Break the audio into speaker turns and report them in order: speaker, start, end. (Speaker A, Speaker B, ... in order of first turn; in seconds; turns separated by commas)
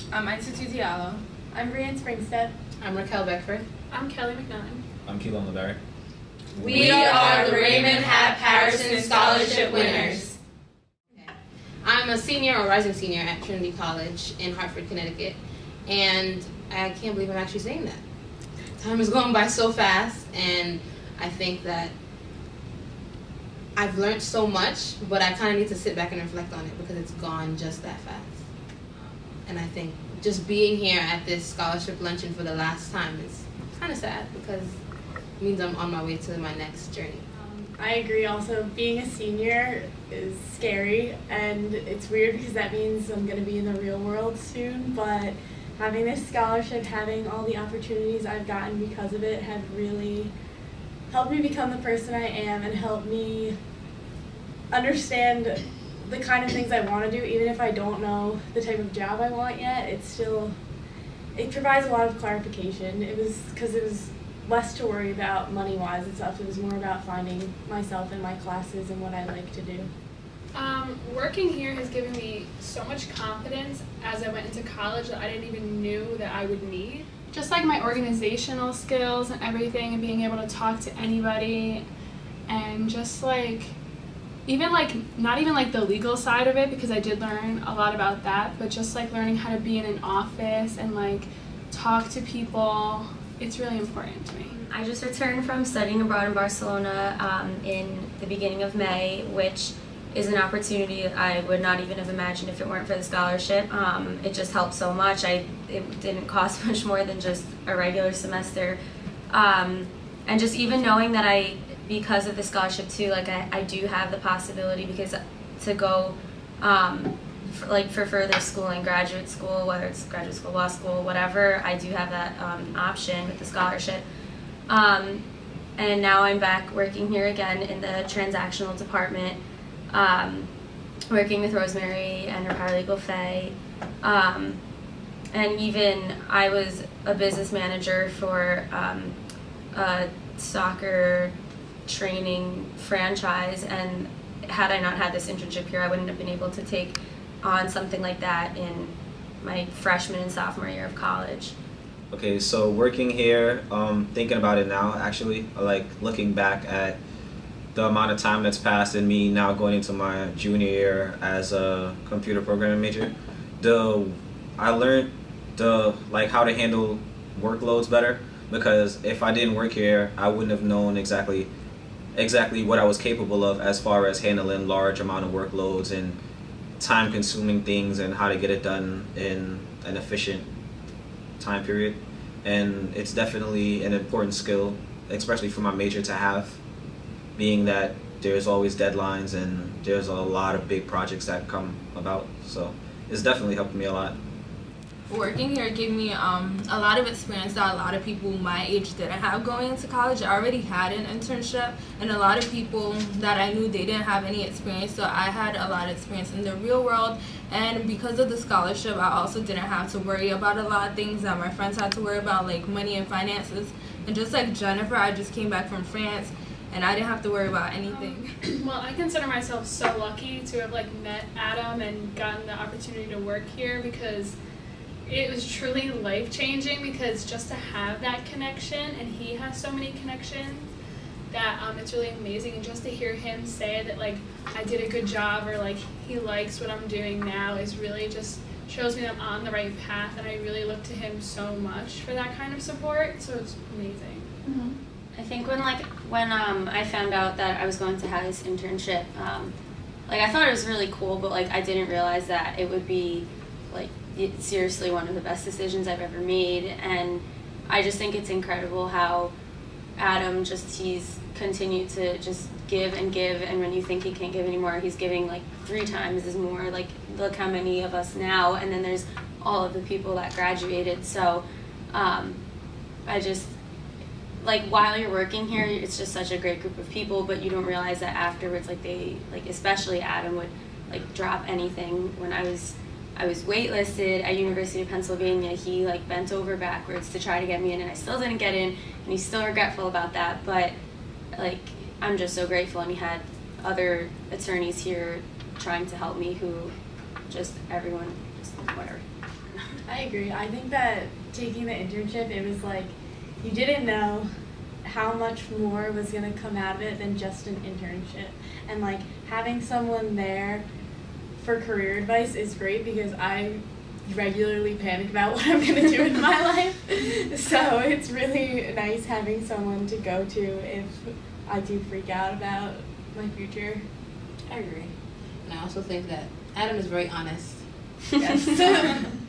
Speaker A: 0.1-1.2, Speaker B: 1.5-2.5, Speaker C: 2.8-3.6, Speaker D: 3.9-4.8, Speaker E: 5.0-5.8, Speaker C: 6.5-10.3, Speaker A: 6.6-10.3, Speaker C: 11.8-18.0, Speaker C: 18.8-21.9, Speaker C: 23.8-28.4, Speaker C: 28.9-34.8, Speaker C: 35.4-37.2, Speaker B: 37.4-50.3, Speaker B: 51.1-53.5, Speaker B: 54.7-60.5, Speaker B: 61.3-69.9, Speaker D: 70.5-81.8, Speaker D: 82.5-83.7, Speaker D: 84.5-94.5, Speaker F: 94.5-108.8, Speaker F: 109.3-124.0, Speaker F: 124.7-125.2, Speaker F: 125.8-129.4, Speaker F: 129.9-130.5, Speaker F: 131.1-134.6, Speaker F: 135.3-139.2, Speaker F: 139.7-141.3, Speaker F: 141.8-151.6, Speaker E: 152.1-157.0, Speaker E: 157.8-171.5, Speaker E: 172.2-176.2, Speaker E: 176.8-180.4, Speaker E: 181.4-186.6, Speaker E: 187.3-194.2, Speaker A: 195.1-218.2, Speaker D: 217.8-224.3, Speaker D: 225.1-230.7, Speaker D: 231.3-244.3, Speaker F: 245.2-249.5, Speaker F: 250.1-259.3, Speaker F: 260.0-272.4, Speaker F: 273.1-273.5, Speaker F: 274.4-290.8, Speaker F: 291.3-296.7, Speaker F: 297.3-299.0, Speaker B: 299.9-304.3, Speaker B: 304.8-310.6, Speaker B: 311.4-323.8, Speaker C: 325.4-327.6, Speaker B: 328.2-329.1